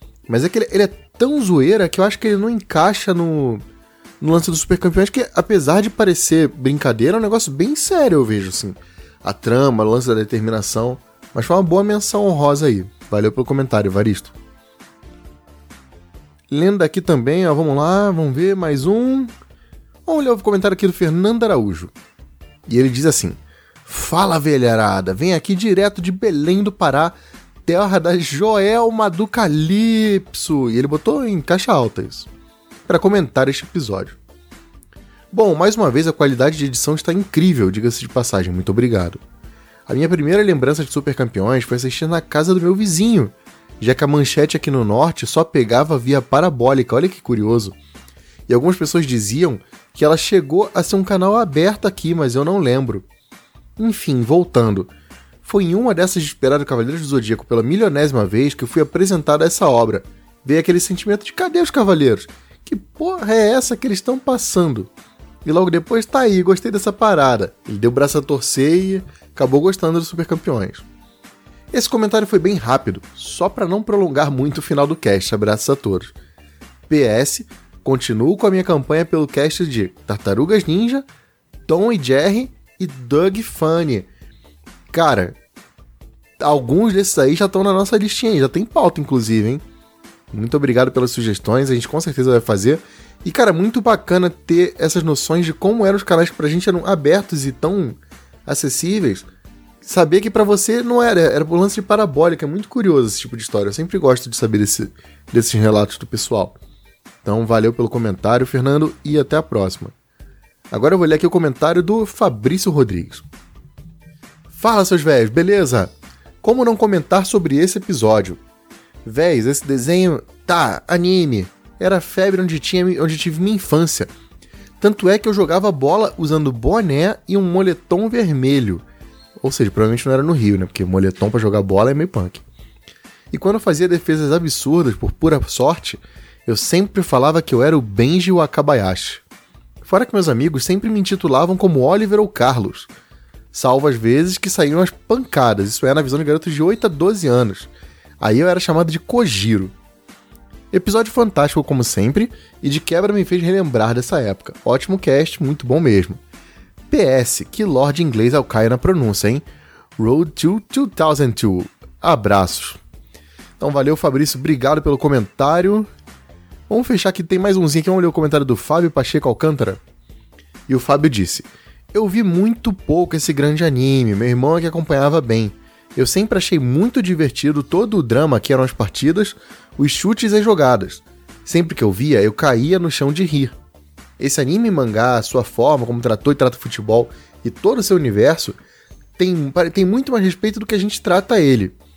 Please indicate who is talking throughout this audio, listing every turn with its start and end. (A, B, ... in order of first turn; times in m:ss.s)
0:00.3-0:03.6 A
0:04.2-0:14.3 A
0:16.5-0:19.3 A
0:20.1-0:21.9 A
0:22.7-0:32.3 A
0:32.9-0:34.2 A
0:35.3-0:39.2 A
0:39.9-0:47.8 A
0:48.5-0:53.1 A
0:53.8-0:54.9 A
0:55.4-1:04.9 A
1:05.4-1:10.8 A
1:11.7-1:16.1 A
1:16.9-1:21.1 A
1:21.7-1:24.1 A
1:24.9-1:25.4 A
1:26.4-1:29.6 A
1:30.3-1:39.3 A
1:39.8-1:46.6 A
1:47.2-1:49.9 A
1:50.7-1:53.2 A
1:54.5-1:58.4 A
1:59.0-2:04.1 A
2:04.8-2:08.8 A
2:09.4-2:12.4 A
2:13.3-2:19.2 A
2:19.8-2:22.9 A
2:23.5-2:29.7 A
2:30.7-2:36.2 A
2:36.9-2:39.4 A
2:40.0-2:42.8 A
2:43.6-2:45.9 A
2:46.7-2:49.8 A
2:50.7-3:03.6 A
3:04.2-3:08.6 A
3:09.2-3:11.8 A